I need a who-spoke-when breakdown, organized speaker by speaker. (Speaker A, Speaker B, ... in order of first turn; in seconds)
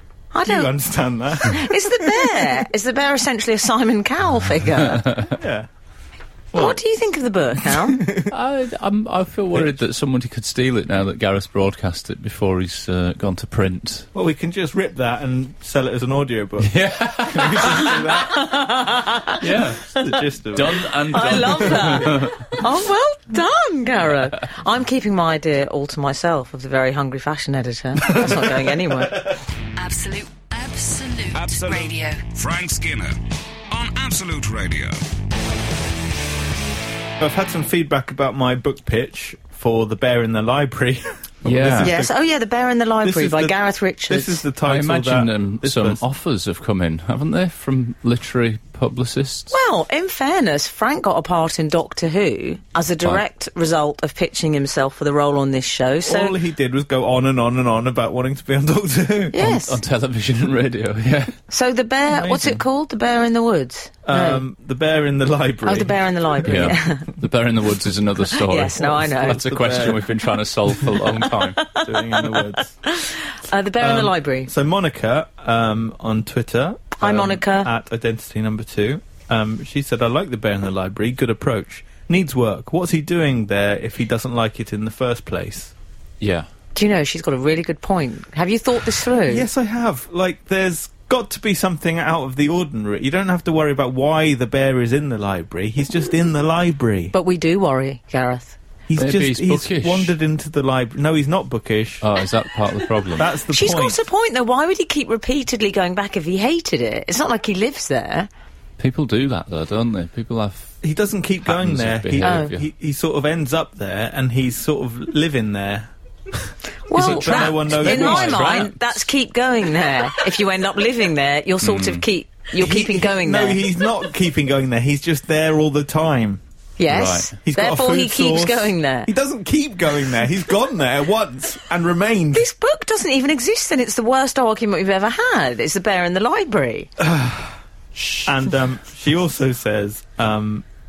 Speaker A: 0.3-0.7, 1.4-5.2, 6.5-8.0, 17.9-19.4, 21.0-29.3, 41.8-44.4, 49.5-56.4, 59.3-59.8, 61.5-64.4, 65.6-67.1, 68.3-69.4, 71.3-74.5, 77.0-77.7, 86.7-89.5, 97.1-98.6, 103.5-108.3, 112.2-112.5, 116.9-123.6, 126.8-129.1, 132.3-136.9
Speaker B: 0.4-2.5, 5.3-5.7, 6.5-6.8, 7.9-8.3, 14.1-18.6, 19.9-22.2, 37.2-42.1, 43.0-46.0, 56.0-59.4, 62.1-62.6, 64.0-66.7, 68.8-70.1, 71.7-72.7, 73.8-85.7, 89.3-97.1, 98.9-102.0, 103.2-104.0, 110.8-115.9, 116.9-118.7, 122.5-126.4, 127.4-132.4, 137.0-137.5, 138.1-140.6
Speaker C: 8.3-14.1, 16.6-18.1, 19.4-19.8, 20.5-22.4, 41.4-42.0, 44.6-49.5, 59.3-61.4, 66.4-71.6, 86.2-86.5, 99.0-100.1, 102.0-103.3, 108.8-110.7, 111.4-112.7, 116.9-119.0, 121.6-122.0, 126.9-127.3
Speaker D: 29.8-32.2
Speaker E: 31.3-33.2, 33.7-35.0